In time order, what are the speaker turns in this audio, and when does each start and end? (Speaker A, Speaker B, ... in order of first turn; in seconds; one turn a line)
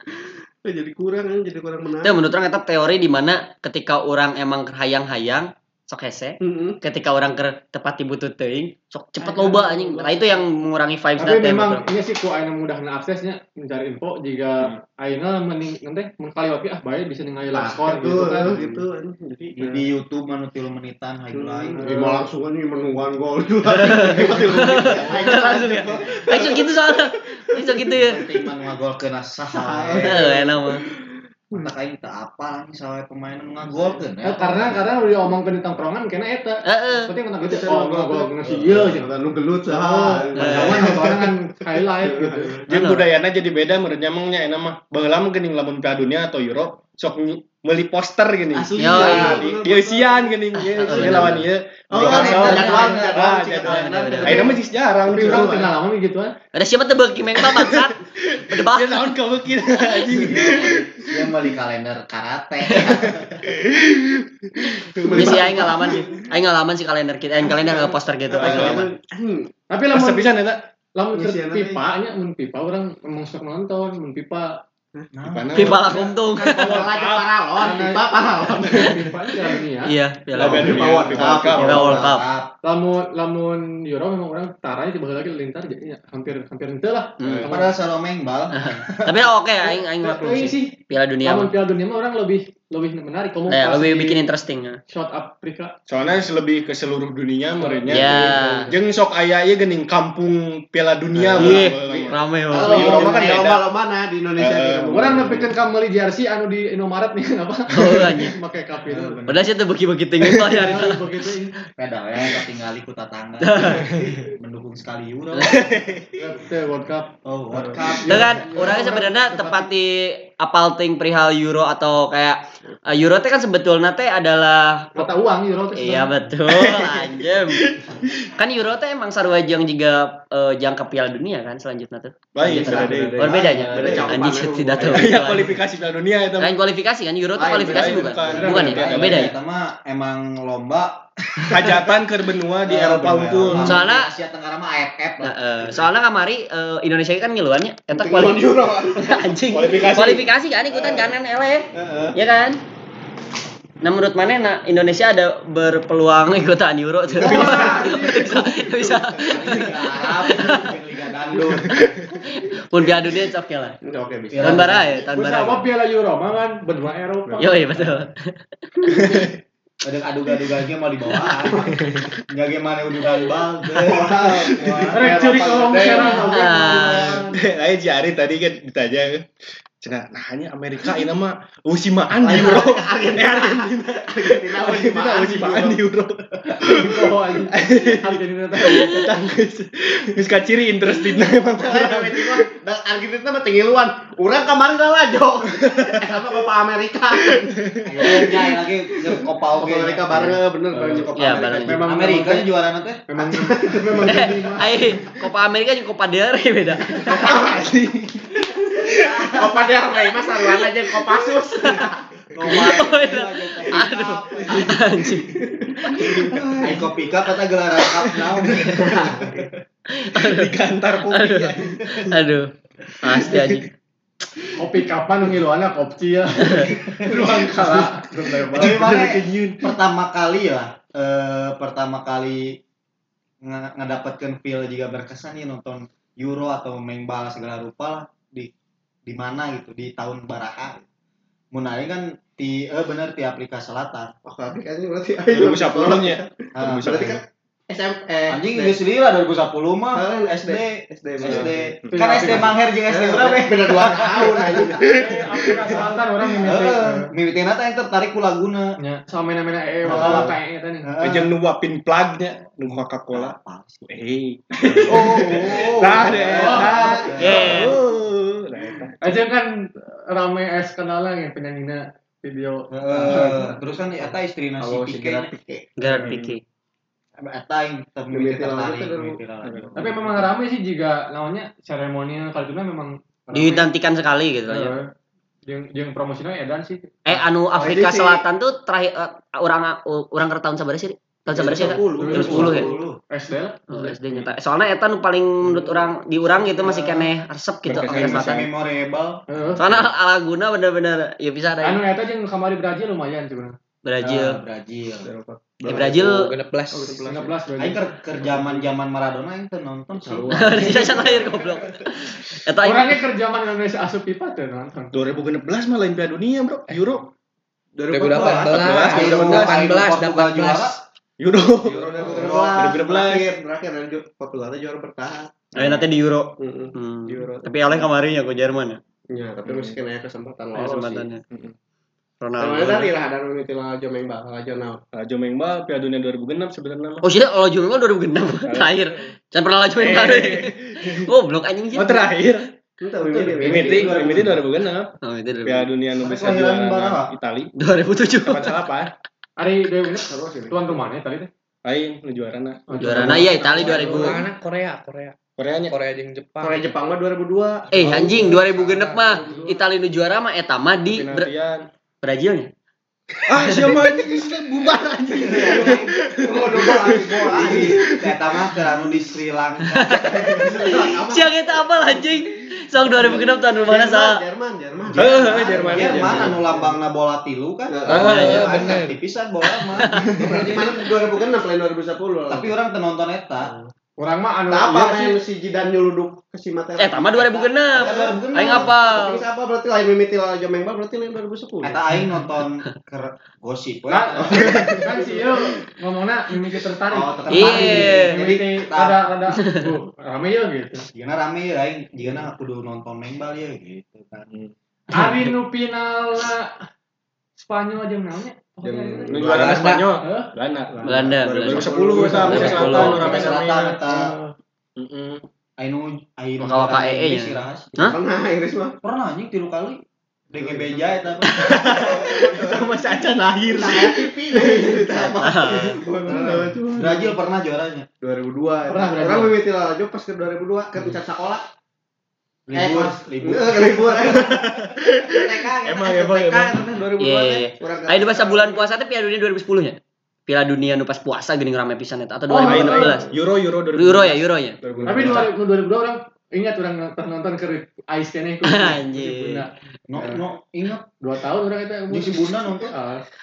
Speaker A: 0.6-2.2
Speaker B: 2.0-11.8
Speaker A: 6.4-6.8
Speaker C: 9.2-10.3
Speaker C: 11.2-18.8
Speaker A: 17.5-19.6
Speaker D: 19.6-21.9
Speaker A: 21.3-26.8
Speaker C: 21.8-22.2
Speaker B: 23.7-28.2
Speaker D: 28.0-30.2
Speaker A: 29.5-30.6
Speaker B: 30.1-30.8
Speaker D: 31.5-34.9
Speaker C: 34.2-39.1
Speaker B: 36.6-37.1
Speaker A: 37.4-42.6
Speaker C: 39.7-42.6
Speaker B: 40.4-40.8
Speaker E: 42.7-55.7
Speaker B: 42.7-43.0
Speaker D: 48.5-49.5
Speaker A: 48.6-50.3
Speaker B: 48.8-49.4
Speaker B: 50.5-51.4
Speaker A: 51.0-51.4
Speaker A: 51.9-53.7
Speaker D: 51.9-54.5
Speaker B: 52.5-52.9
Speaker B: 53.6-54.5
Speaker C: 55.0-56.4
Speaker A: 55.1-55.7
Speaker B: 56.5-59.1
Speaker E: 57.4-61.4
Speaker B: 59.9-60.2
Speaker D: 60.1-63.5
Speaker A: 65.0-66.2
Speaker E: 65.0-65.4
Speaker B: 65.1-68.9
Speaker A: 68.3-69.5
Speaker E: 68.3-68.8
Speaker C: 69.7-70.3
Speaker E: 69.9-70.6
Speaker C: 71.0-74.5
Speaker A: 71.1-71.8
Speaker D: 75.1-76.1
Speaker E: 75.3-77.3
Speaker B: 75.5-76.8
Speaker A: 76.3-79.5
Speaker C: 77.6-78.0
Speaker D: 77.7-78.0
Speaker C: 78.7-79.9
Speaker B: 79.8-80.8
Speaker E: 80.3-82.0
Speaker D: 80.4-82.5
Speaker A: 80.4-81.7
Speaker B: 81.5-82.2
Speaker C: 82.6-87.8
Speaker B: 87.2-87.5
Speaker D: 87.4-89.2
Speaker B: 88.5-91.5
Speaker C: 89.7-94.3
Speaker B: 93.5-94.8
Speaker C: 94.9-95.7
Speaker E: 95.9-103.6
Speaker C: 97.5-98.8
Speaker B: 97.9-98.7
Speaker A: 101.2-105.5
Speaker B: 101.3-103.0
Speaker C: 102.5-103.3
Speaker E: 104.4-105.3
Speaker C: 104.9-109.3
Speaker B: 107.7-108.3
Speaker D: 108.8-109.4
Speaker B: 109.3-111.2
Speaker C: 110.3-111.5
Speaker D: 111.8-115.8
Speaker B: 113.4-113.9
Speaker E: 115.4-116.1
Speaker C: 116.2-117.1
Speaker D: 117.2-119.0
Speaker B: 118.0-124.9
Speaker C: 118.4-119.7
Speaker C: 124.9-126.1
Speaker B: 125.7-127.7
Speaker E: 126.5-128.1
Speaker B: 128.3-135.5
Speaker E: 132.3-133.4
Speaker A: 132.4-135.5
Speaker D: 133.2-134.4
Speaker E: 134.8-136.6
Speaker B: 136.4-139.3
Speaker D: 137.4-142.0
Speaker E: 137.6-139.3
Speaker C: 138.2-139.0
Speaker E: 141.5-143.8
Speaker D: 142.6-145.4
Speaker B: 143.6-144.1
Speaker B: 145.2-152.6
Speaker A: 147.9-149.2
Speaker E: 149.5-150.2
Speaker A: 151.8-152.1
Speaker B: 153.8-160.7
Speaker A: 157.1-158.3
Speaker C: 157.2-158.6
Speaker D: 157.2-158.2
Speaker D: 159.1-162.0
Speaker A: 159.2-159.6
Speaker B: 162.2-163.8
Speaker A: 163.8-164.7
Speaker D: 164.3-165.0
Speaker B: 164.4-165.6
Speaker C: 165.1-168.1
Speaker B: 167.4-168.4
Speaker A: 168.8-169.2
Speaker E: 168.9-169.3
Speaker D: 169.8-171.8
Speaker A: 171.3-172.1
Speaker D: 172.3-175.3
Speaker A: 173.8-177.2
Speaker C: 174.9-177.3
Speaker B: 176.1-177.2
Speaker E: 177.3-179.2
Speaker E: 179.8-192.5
Speaker A: 182.2-185.8
Speaker C: 186.5-189.0
Speaker A: 190.9-198.4
Speaker E: 195.7-196.1
Speaker D: 197.8-200.4
Speaker A: 199.0-201.9
Speaker C: 200.7-202.5
Speaker B: 201.1-201.8
Speaker D: 201.7-203.9
Speaker C: 203.1-204.8
Speaker A: 203.3-204.2
Speaker B: 204.1-207.5
Speaker E: 207.0-209.2
Speaker A: 207.1-207.6
Speaker A: 208.7-212.0
Speaker D: 209.0-209.8
Speaker D: 212.3-214.8
Speaker B: 212.4-215.3
Speaker A: 214.5-216.9
Speaker B: 215.8-216.2
Speaker D: 216.2-219.5
Speaker A: 218.6-219.4
Speaker B: 218.6-218.9
Speaker B: 219.9-220.5
Speaker E: 220.1-222.1
Speaker B: 221.1-222.5
Speaker B: 223.0-223.7
Speaker E: 223.1-223.6
Speaker C: 224.6-228.9
Speaker B: 226.4-226.7
Speaker D: 226.8-227.2
Speaker A: 227.1-227.9
Speaker D: 228.5-232.6
Speaker E: 228.6-229.6
Speaker D: 233.4-238.5
Speaker D: 239.1-240.8
Speaker D: 241.5-244.1
Speaker A: 244.2-246.3
Speaker E: 245.3-247.2
Speaker D: 246.6-247.2
Speaker A: 246.8-248.8
Speaker D: 248.3-254.8
Speaker A: 249.9-255.8
Speaker E: 251.2-252.5
Speaker C: 254.9-257.1
Speaker D: 256.4-258.8
Speaker C: 258.8-260.9
Speaker D: 259.8-261.3
Speaker E: 261.0-269.1
Speaker D: 263.1-263.8
Speaker A: 264.7-267.3
Speaker D: 264.9-267.8
Speaker C: 266.4-267.1
Speaker B: 267.2-267.8
Speaker C: 269.0-273.4
Speaker D: 272.7-275.3
Speaker A: 273.0-273.5
Speaker A: 274.6-275.8
Speaker B: 275.8-276.4
Speaker E: 276.0-276.3
Speaker D: 277.2-280.3
Speaker A: 278.1-279.2
Speaker E: 279.4-279.7
Speaker C: 279.7-283.7
Speaker B: 283.3-284.8
Speaker C: 284.5-284.9
Speaker C: 285.4-287.2
Speaker B: 287.1-292.7
Speaker A: 287.5-288.2
Speaker A: 291.3-292.8
Speaker D: 291.5-293.0
Speaker C: 291.9-294.0
Speaker B: 293.7-298.5
Speaker D: 296.6-296.9
Speaker E: 297.7-298.4
Speaker D: 297.7-299.2
Speaker C: 299.3-299.7
Speaker B: 299.6-301.8
Speaker C: 301.6-303.6
Speaker B: 303.8-304.4
Speaker D: 304.0-305.1
Speaker A: 305.0-306.0
Speaker F: 305.6-307.3
Speaker B: 305.6-306.3
Speaker C: 306.7-308.7
Speaker D: 307.6-311.4
Speaker A: 310.1-311.3
Speaker B: 310.3-313.0
Speaker C: 312.6-315.2
Speaker E: 314.9-317.1
Speaker A: 317.8-319.5
Speaker F: 317.9-320.8
Speaker D: 318.0-320.8
Speaker E: 318.6-319.5
Speaker E: 321.2-323.3
Speaker A: 321.6-325.4
Speaker D: 322.0-322.8
Speaker B: 325.5-328.8
Speaker E: 325.6-325.8
Speaker A: 326.4-327.9
Speaker A: 329.1-331.1
Speaker E: 329.4-329.8
Speaker B: 330.5-331.2
Speaker B: 332.2-332.9
Speaker A: 332.4-334.8
Speaker E: 334.9-337.0
Speaker B: 337.0-342.1
Speaker E: 338.4-339.1
Speaker E: 339.8-341.1
Speaker E: 341.7-342.4
Speaker A: 342.8-344.4
Speaker D: 343.1-344.3
Speaker E: 343.3-347.5
Speaker B: 345.0-345.7
Speaker D: 345.9-347.1
Speaker B: 347.6-348.5
Speaker E: 348.2-348.9
Speaker C: 349.4-351.3
Speaker E: 351.6-354.2
Speaker C: 352.7-354.2
Speaker B: 352.8-354.2
Speaker F: 353.8-356.7
Speaker E: 355.4-355.7
Speaker A: 356.4-359.5
Speaker B: 357.7-361.3
Speaker F: 357.8-359.2
Speaker E: 360.8-361.6
Speaker B: 362.0-362.5
Speaker E: 363.3-368.1
Speaker B: 363.4-363.9
Speaker D: 365.2-365.9
Speaker A: 365.2-367.9
Speaker D: 366.5-370.9
Speaker B: 369.7-374.2
Speaker A: 370.2-372.1
Speaker A: 372.8-376.8
Speaker E: 374.9-376.4
Speaker D: 374.9-381.0
Speaker A: 377.7-378.6
Speaker F: 377.9-379.0
Speaker B: 378.0-378.6
Speaker E: 378.2-378.5
Speaker B: 379.4-380.1
Speaker A: 380.1-382.5
Speaker D: 382.3-383.5
Speaker A: 383.4-383.7
Speaker C: 384.0-385.2
Speaker A: 384.5-391.8
Speaker B: 386.8-389.2
Speaker D: 387.7-388.8
Speaker D: 391.6-395.0
Speaker C: 393.9-400.9
Speaker A: 394.2-395.1
Speaker D: 396.9-399.0
Speaker B: 397.3-398.2
Speaker B: 399.4-399.7
Speaker D: 400.9-404.3
Speaker C: 404.9-406.5
Speaker C: 407.4-410.3
Speaker A: 408.6-409.9
Speaker E: 409.1-413.8
Speaker A: 410.7-413.0
Speaker B: 410.8-413.1
Speaker D: 412.0-414.1
Speaker C: 412.1-414.3
Speaker E: 414.8-415.2
Speaker D: 415.6-417.8
Speaker B: 416.4-418.0
Speaker A: 417.8-418.8
Speaker D: 418.8-422.6
Speaker A: 420.4-422.7
Speaker E: 421.4-425.3
Speaker A: 423.5-427.1
Speaker D: 424.6-427.9
Speaker B: 424.9-425.8
Speaker A: 428.0-431.4
Speaker C: 428.7-429.3
Speaker D: 432.5-437.5
Speaker A: 432.5-434.6
Speaker E: 435.6-436.6
Speaker B: 437.0-443.1
Speaker A: 437.5-438.6
Speaker C: 442.3-443.1
Speaker E: 442.4-445.3
Speaker B: 443.8-445.3
Speaker C: 444.9-450.2
Speaker B: 448.4-449.4
Speaker D: 449.9-450.9
Speaker C: 451.0-453.0
Speaker D: 451.9-452.7